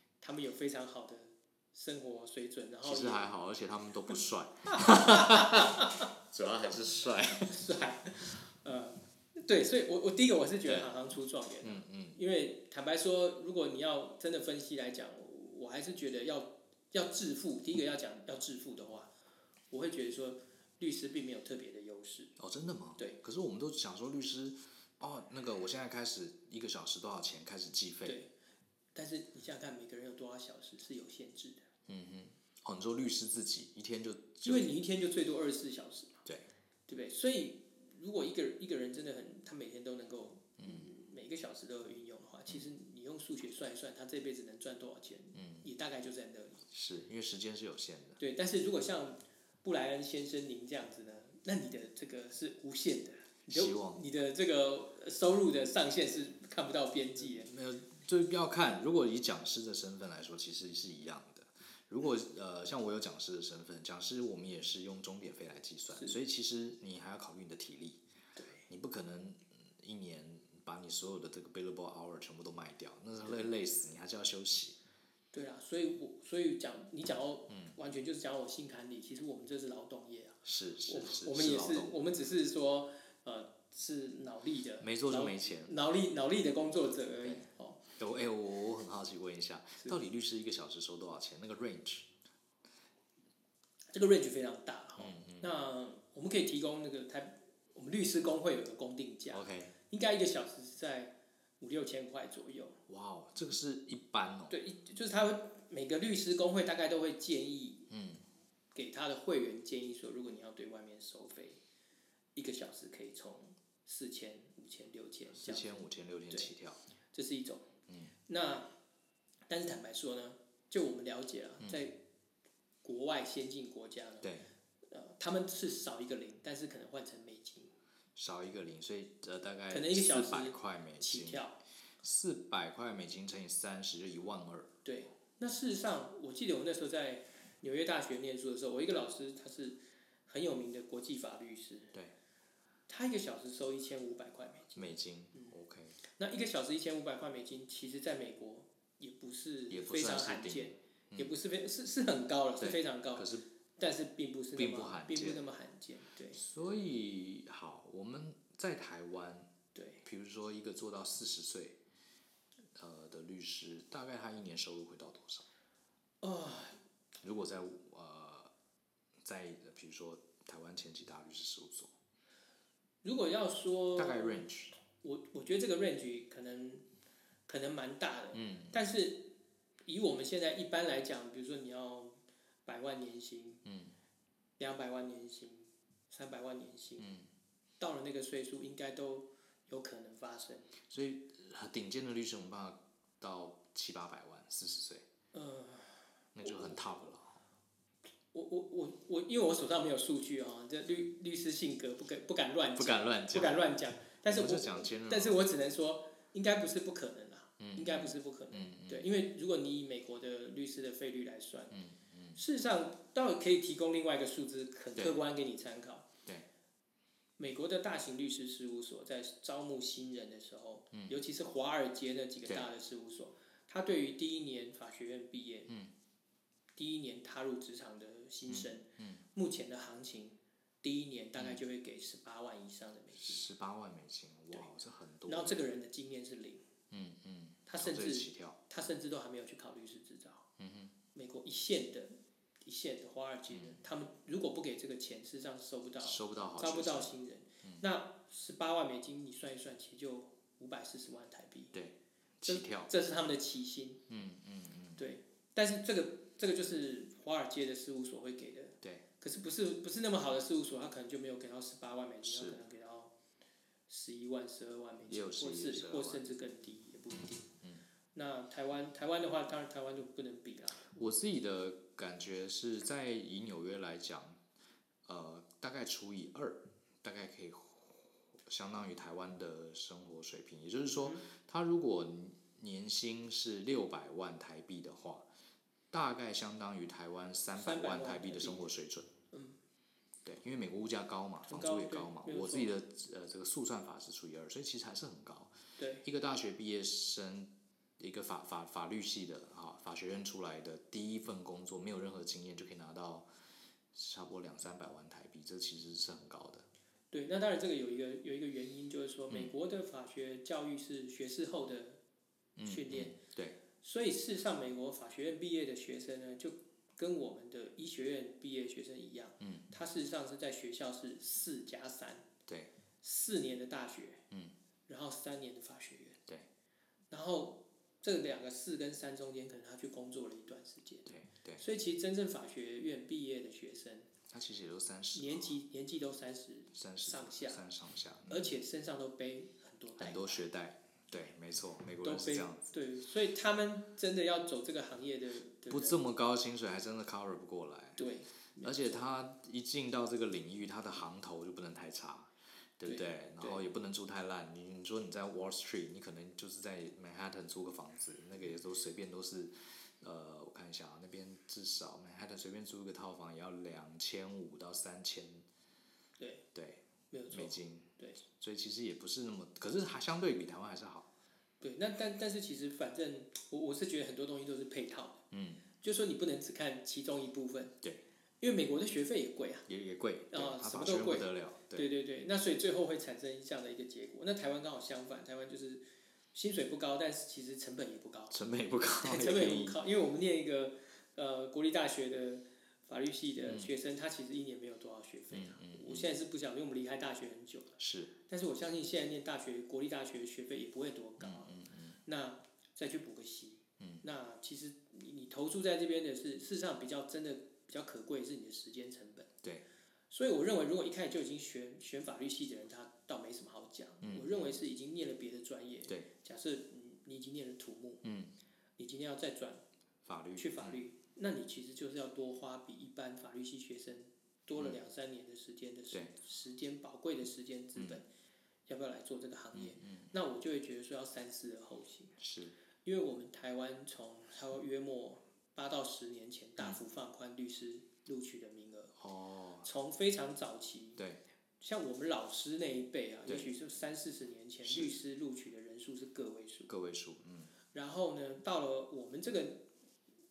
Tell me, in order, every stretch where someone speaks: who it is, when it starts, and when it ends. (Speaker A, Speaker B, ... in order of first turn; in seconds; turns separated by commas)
Speaker A: 0.2-3.3, Speaker B: 2.8-7.7, Speaker A: 4.7-6.0, Speaker A: 7.5-19.1, Speaker B: 11.6-12.2, Speaker A: 19.7-22.3, Speaker B: 22.4-28.2, Speaker A: 28.0-28.3, Speaker A: 28.9-31.7, Speaker B: 31.9-34.7, Speaker A: 34.4-36.2, Speaker A: 36.9-46.6, Speaker B: 40.6-40.9, Speaker B: 45.3-45.7, Speaker B: 46.7-48.2, Speaker A: 48.2-57.5, Speaker B: 53.5-54.0, Speaker B: 57.2-68.0, Speaker A: 68.3-68.6, Speaker B: 68.7-74.8, Speaker A: 75.3-87.8, Speaker B: 77.5-77.7, Speaker B: 80.4-82.0, Speaker B: 84.8-85.7, Speaker B: 87.2-92.1, Speaker A: 93.9-102.8, Speaker B: 95.0-95.5, Speaker B: 99.3-99.7, Speaker B: 102.9-104.5, Speaker A: 104.5-107.9, Speaker B: 107.9-108.2, Speaker A: 108.7-111.6, Speaker A: 112.3-115.8, Speaker B: 115.3-116.8, Speaker A: 117.1-117.7, Speaker B: 117.9-118.1, Speaker A: 118.3-118.7, Speaker A: 119.5-122.0, Speaker A: 122.8-124.3, Speaker B: 124.2-124.5, Speaker A: 124.9-127.7, Speaker B: 128.2-131.4, Speaker A: 129.7-131.6, Speaker B: 132.0-134.7, Speaker A: 134.8-141.9, Speaker A: 142.9-145.5, Speaker B: 144.7-146.0, Speaker A: 146.0-156.4, Speaker B: 149.7-151.3, Speaker B: 152.6-153.4, Speaker B: 154.5-155.4, Speaker B: 156.3-159.5, Speaker A: 159.7-160.0, Speaker B: 160.0-161.8, Speaker B: 162.8-165.4, Speaker A: 166.2-166.8, Speaker B: 167.2-168.5, Speaker B: 169.2-171.9, Speaker A: 173.0-174.4, Speaker B: 173.9-174.7, Speaker A: 175.0-176.8, Speaker A: 177.5-179.3, Speaker B: 178.3-178.8, Speaker A: 179.8-183.6, Speaker B: 183.6-183.9, Speaker A: 184.6-187.1, Speaker B: 187.0-187.3, Speaker A: 187.8-190.7, Speaker B: 190.9-195.0, Speaker A: 195.3-196.8, Speaker B: 196.3-197.4, Speaker A: 198.3-211.8, Speaker B: 202.8-203.6, Speaker B: 204.2-205.4, Speaker B: 207.6-209.1, Speaker B: 211.7-212.4, Speaker A: 212.3-216.1, Speaker A: 217.4-225.7, Speaker B: 220.9-221.2, Speaker A: 226.7-233.4, Speaker B: 228.5-229.2, Speaker B: 233.1-235.7, Speaker A: 235.3-236.6, Speaker B: 236.9-238.6, Speaker A: 237.7-240.4, Speaker B: 240.6-240.9, Speaker A: 241.1-251.7, Speaker B: 243.5-243.8, Speaker B: 246.0-247.1, Speaker B: 251.7-252.9, Speaker A: 252.4-254.0, Speaker B: 254.1-255.0, Speaker A: 255.0-263.1, Speaker B: 262.2-262.6, Speaker A: 263.9-267.5, Speaker B: 265.1-266.2, Speaker A: 268.1-270.8, Speaker B: 270.8-274.4, Speaker B: 275.1-285.2, Speaker B: 285.9-289.1, Speaker A: 287.6-288.7, Speaker A: 289.3-289.6, Speaker B: 290.2-303.3, Speaker A: 291.4-292.7, Speaker A: 295.8-296.0, Speaker B: 303.9-306.6, Speaker A: 307.1-312.0, Speaker B: 312.6-313.6, Speaker A: 312.6-313.1, Speaker A: 313.8-322.3, Speaker B: 319.4-319.7, Speaker A: 323.0-324.2, Speaker A: 324.9-326.2, Speaker A: 327.1-331.1, Speaker B: 331.1-331.6, Speaker A: 331.6-334.1, Speaker B: 334.3-335.5, Speaker A: 335.1-337.6, Speaker B: 336.7-338.5, Speaker A: 338.3-340.4, Speaker B: 340.0-342.7, Speaker A: 342.0-346.0, Speaker B: 345.7-348.0, Speaker A: 348.0-349.0, Speaker B: 348.6-365.4, Speaker A: 352.8-353.6, Speaker A: 366.2-366.4, Speaker B: 366.5-371.1, Speaker A: 367.1-368.2, Speaker A: 371.6-375.2, Speaker B: 375.3-375.6, Speaker A: 375.8-377.7, Speaker A: 378.4-379.7, Speaker B: 379.7-381.9, Speaker A: 380.3-388.3, Speaker B: 388.3-389.8, Speaker A: 389.0-397.8, Speaker B: 393.4-393.7, Speaker B: 395.3-396.1, Speaker B: 397.8-398.1, Speaker A: 398.3-409.3, Speaker B: 401.2-402.0, Speaker A: 410.1-418.0, Speaker B: 414.0-414.5, Speaker B: 418.0-418.3, Speaker A: 418.8-419.6, Speaker B: 420.0-420.8, Speaker A: 420.4-428.1, Speaker A: 428.6-432.2, Speaker B: 429.5-430.1, Speaker B: 432.2-432.6, Speaker A: 432.8-438.9, Speaker B: 439.0-439.7, Speaker A: 439.6-441.0, Speaker A: 441.6-446.7, Speaker B: 444.6-444.9, Speaker B: 446.7-447.5, Speaker A: 447.7-449.7